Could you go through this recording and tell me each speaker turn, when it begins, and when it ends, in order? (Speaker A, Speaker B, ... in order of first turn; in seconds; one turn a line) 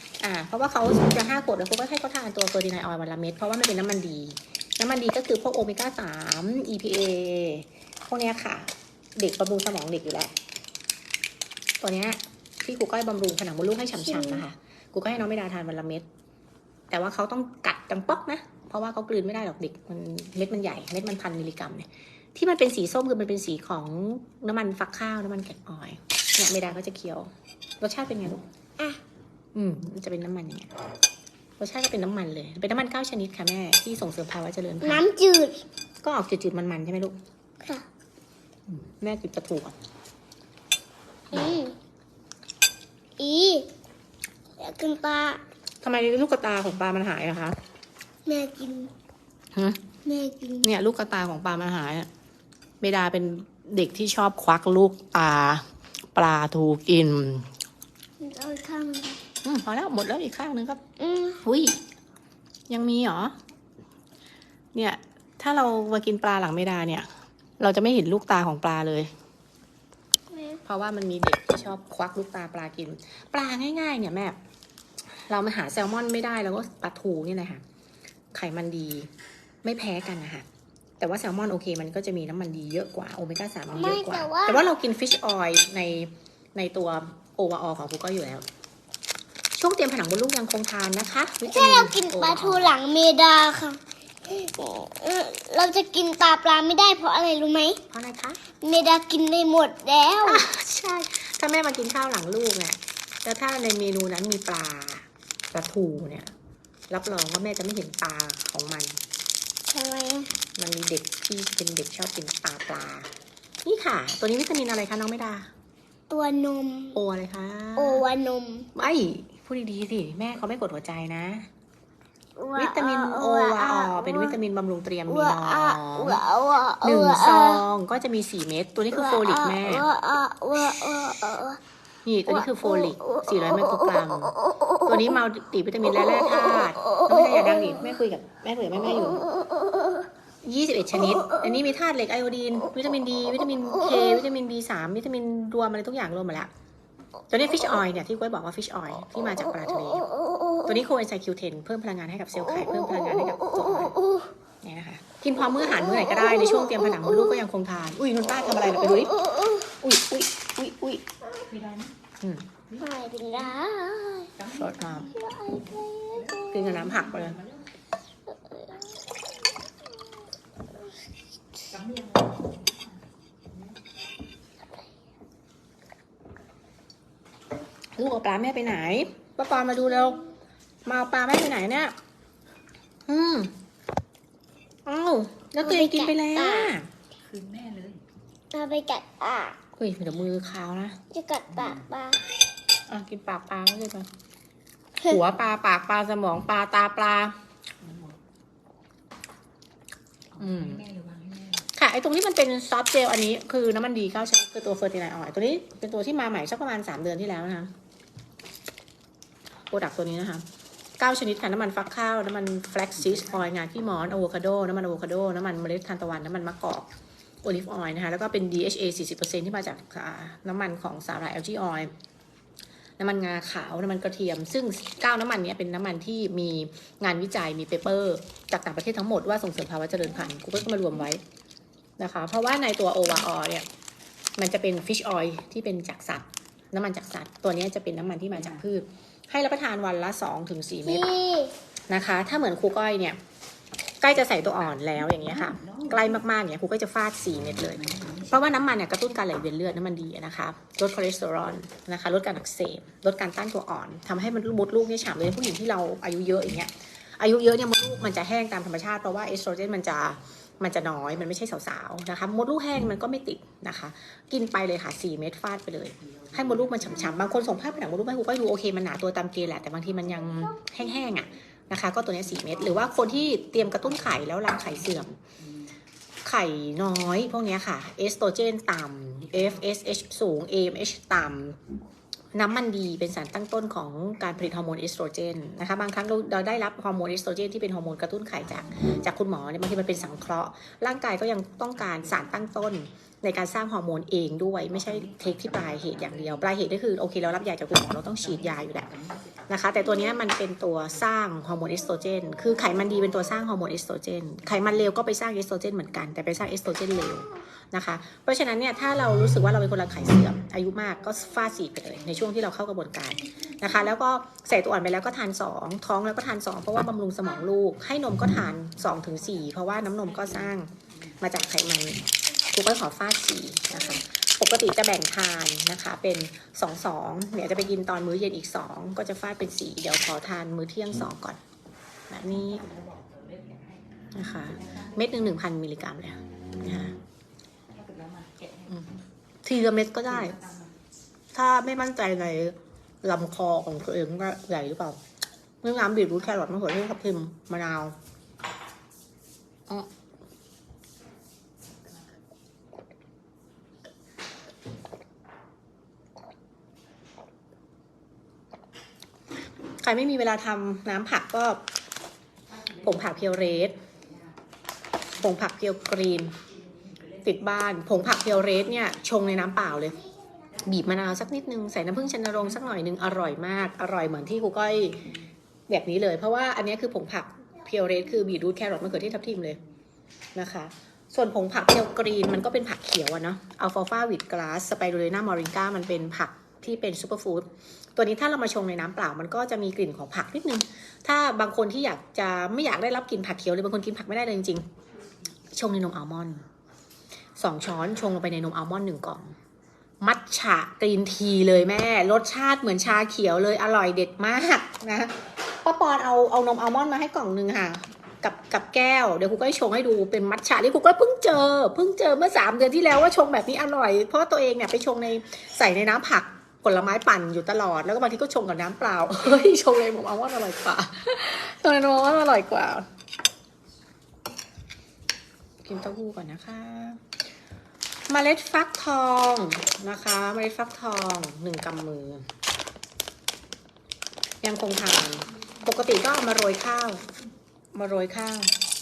Speaker A: 0.2-10.3
Speaker A: 11.8-16.1
Speaker B: 14.1-14.4
Speaker A: 16.9-27.3
Speaker A: 27.8-28.4
Speaker A: 29.5-30.7
Speaker A: 31.6-35.0
Speaker B: 34.8-35.6
Speaker A: 36.0-37.2
Speaker A: 38.7-39.8
Speaker B: 41.3-41.7
Speaker B: 43.2-43.7
Speaker B: 44.6-45.4
Speaker A: 45.8-47.6
Speaker B: 48.2-48.9
Speaker A: 49.5-49.8
Speaker B: 50.0-50.7
Speaker A: 50.6-52.1
Speaker A: 52.8-57.5
Speaker B: 58.2-59.2
Speaker A: 59.4-60.8
Speaker B: 61.0-61.4
Speaker A: 61.4-61.8
Speaker A: 62.7-63.4
Speaker A: 64.7-69.1
Speaker B: 70.3-70.6
Speaker A: 70.6-74.4
Speaker A: 75.1-77.6
Speaker A: 78.3-79.1
Speaker A: 79.6-80.5
Speaker A: 81.0-88.4
Speaker B: 83.8-84.6
Speaker A: 89.5-92.7
Speaker B: 91.5-97.8
Speaker A: 97.9-98.4
Speaker B: 98.6-100.4
Speaker A: 100.2-106.3
Speaker A: 106.9-109.0
Speaker B: 109.7-110.3
Speaker A: 110.5-113.1
Speaker A: 113.6-115.5
Speaker B: 116.1-117.0
Speaker A: 116.9-118.0
Speaker B: 117.8-118.7
Speaker A: 118.7-121.5
Speaker B: 122.4-124.3
Speaker A: 122.6-126.2
Speaker B: 125.1-127.6
Speaker A: 126.8-129.9
Speaker B: 128.9-131.6
Speaker A: 132.0-139.2
Speaker B: 132.3-134.1
Speaker B: 136.5-137.9
Speaker B: 139.4-140.0
Speaker A: 140.4-146.5
Speaker A: 147.3-150.1
Speaker A: 150.6-153.9
Speaker B: 153.0-153.4
Speaker A: 154.6-159.2
Speaker A: 159.8-161.0
Speaker C: 161.4-161.9
Speaker C: 162.7-163.6
Speaker B: 162.8-164.3
Speaker C: 164.3-167.7
Speaker A: 164.5-165.1
Speaker B: 165.1-166.7
Speaker A: 166.5-167.4
Speaker B: 168.3-169.0
Speaker C: 171.7-173.8
Speaker A: 178.0-180.2
Speaker A: 180.8-181.9
Speaker A: 183.1-183.5
Speaker A: 184.8-186.9
Speaker B: 185.6-186.7
Speaker C: 187.2-188.0
Speaker B: 188.5-189.6
Speaker A: 189.8-191.0
Speaker B: 191.1-192.2
Speaker C: 191.5-191.8
Speaker A: 192.9-194.1
Speaker A: 195.0-197.3
Speaker C: 197.8-198.2
Speaker C: 200.3-201.7
Speaker A: 200.4-200.8
Speaker A: 201.7-207.7
Speaker A: 209.7-210.4
Speaker A: 211.0-216.9
Speaker A: 217.4-221.9
Speaker A: 223.0-231.2
Speaker A: 232.0-233.7
Speaker A: 234.4-241.1
Speaker C: 238.3-238.6
Speaker B: 240.8-241.5
Speaker A: 241.9-243.2
Speaker A: 244.0-275.2
Speaker C: 245.0-246.2
Speaker C: 247.4-248.7
Speaker C: 266.0-267.8
Speaker C: 272.0-275.7
Speaker A: 276.2-281.6
Speaker C: 279.3-279.6
Speaker A: 282.3-298.9
Speaker C: 291.9-292.3
Speaker C: 294.7-296.6
Speaker C: 297.7-299.5
Speaker A: 299.5-331.4
Speaker C: 318.9-321.6
Speaker A: 332.1-332.6
Speaker C: 332.2-335.4
Speaker A: 334.1-336.9
Speaker C: 337.7-338.9
Speaker A: 339.4-340.4
Speaker C: 340.0-340.8
Speaker A: 341.3-345.0
Speaker A: 345.6-347.9
Speaker A: 359.8-361.6
Speaker C: 362.5-364.4
Speaker A: 362.8-363.8
Speaker A: 365.2-366.4
Speaker C: 366.4-369.3
Speaker A: 367.2-370.0
Speaker B: 369.9-370.6
Speaker C: 370.6-371.0
Speaker A: 370.6-375.1
Speaker C: 372.0-373.0
Speaker C: 374.0-375.3
Speaker A: 375.7-379.6
Speaker A: 380.3-394.7
Speaker A: 395.5-396.4
Speaker A: 397.4-399.4
Speaker A: 400.0-422.9
Speaker A: 425.6-427.1
Speaker A: 428.1-432.3
Speaker A: 434.4-437.1
Speaker A: 437.7-438.5